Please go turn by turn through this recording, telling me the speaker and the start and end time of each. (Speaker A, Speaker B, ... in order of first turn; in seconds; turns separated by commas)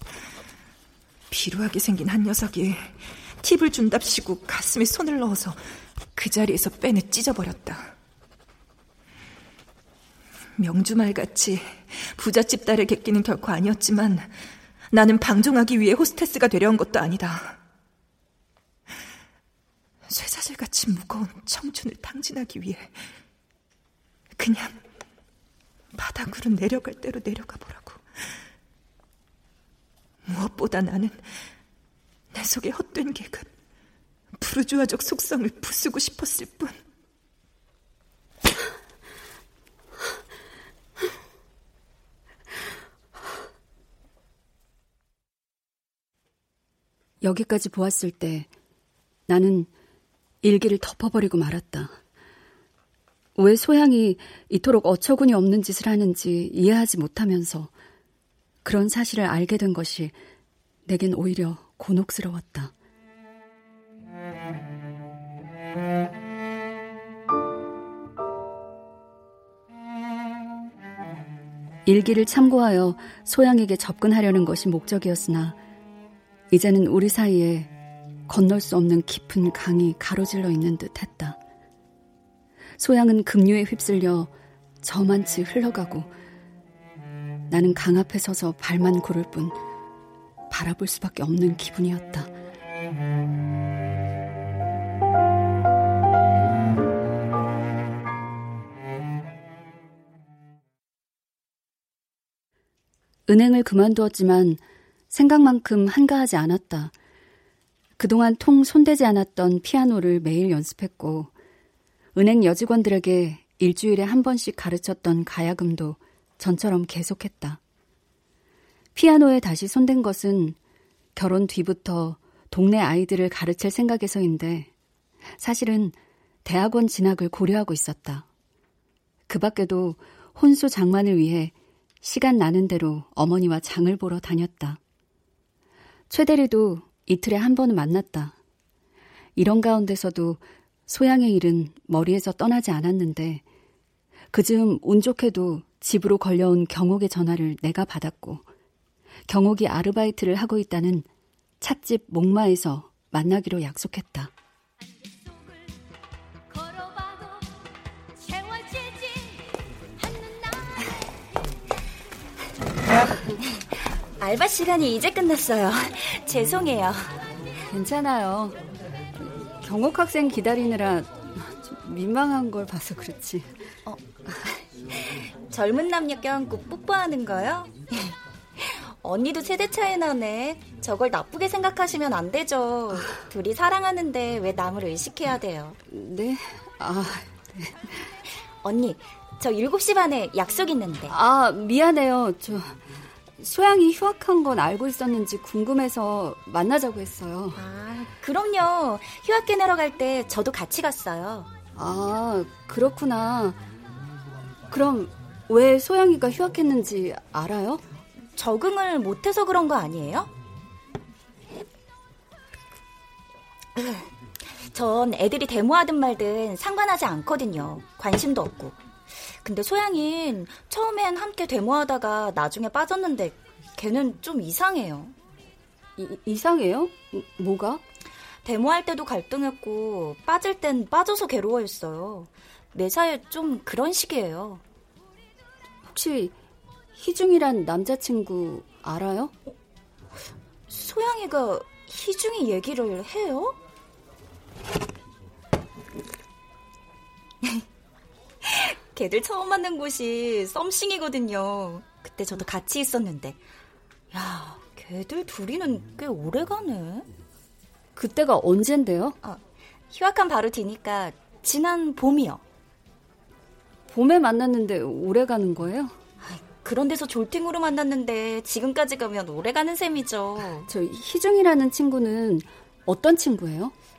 Speaker A: 1.3-5.6, Speaker A: 6.1-7.9, Speaker A: 10.6-14.3, Speaker A: 14.9-17.6, Speaker A: 20.1-23.0, Speaker A: 24.4-24.8, Speaker A: 25.9-28.0, Speaker A: 30.2-31.3, Speaker A: 32.3-33.5, Speaker A: 34.4-36.8, Speaker B: 47.2-48.5, Speaker B: 49.3-49.7, Speaker B: 50.4-52.0, Speaker B: 53.4-57.7, Speaker B: 58.6-60.1, Speaker B: 60.9-62.7, Speaker B: 71.8-75.6, Speaker B: 76.5-77.7, Speaker B: 78.3-81.4, Speaker B: 82.8-84.3, Speaker B: 84.8-86.1, Speaker B: 87.5-89.6, Speaker B: 90.5-92.3, Speaker B: 103.3-106.9, Speaker B: 108.0-111.3, Speaker B: 112.1-117.6, Speaker B: 118.9-120.6, Speaker B: 121.2-124.7, Speaker B: 125.4-128.2, Speaker B: 129.3-134.8, Speaker B: 136.1-138.3, Speaker B: 139.3-143.4, Speaker B: 144.3-148.4, Speaker B: 149.3-151.1, Speaker B: 151.6-154.3, Speaker C: 158.4-159.1, Speaker C: 162.9-167.1, Speaker B: 167.7-168.6, Speaker B: 169.2-173.5, Speaker C: 173.8-185.8, Speaker B: 185.9-187.9, Speaker C: 188.6-191.1, Speaker B: 191.1-192.8, Speaker B: 193.4-197.6, Speaker C: 197.5-201.5, Speaker B: 201.8-203.6, Speaker B: 204.7-207.8, Speaker C: 208.3-210.3, Speaker C: 213.8-214.1, Speaker C: 214.7-218.8, Speaker C: 219.3-225.1, Speaker B: 226.0-227.8, Speaker C: 228.4-234.6, Speaker B: 235.8-236.3, Speaker B: 236.9-239.3, Speaker C: 240.7-243.6, Speaker C: 248.4-253.4, Speaker C: 254.1-257.1, Speaker B: 257.9-259.2, Speaker C: 259.2-262.4, Speaker B: 263.9-265.9, Speaker C: 266.2-270.7, Speaker B: 270.7-273.7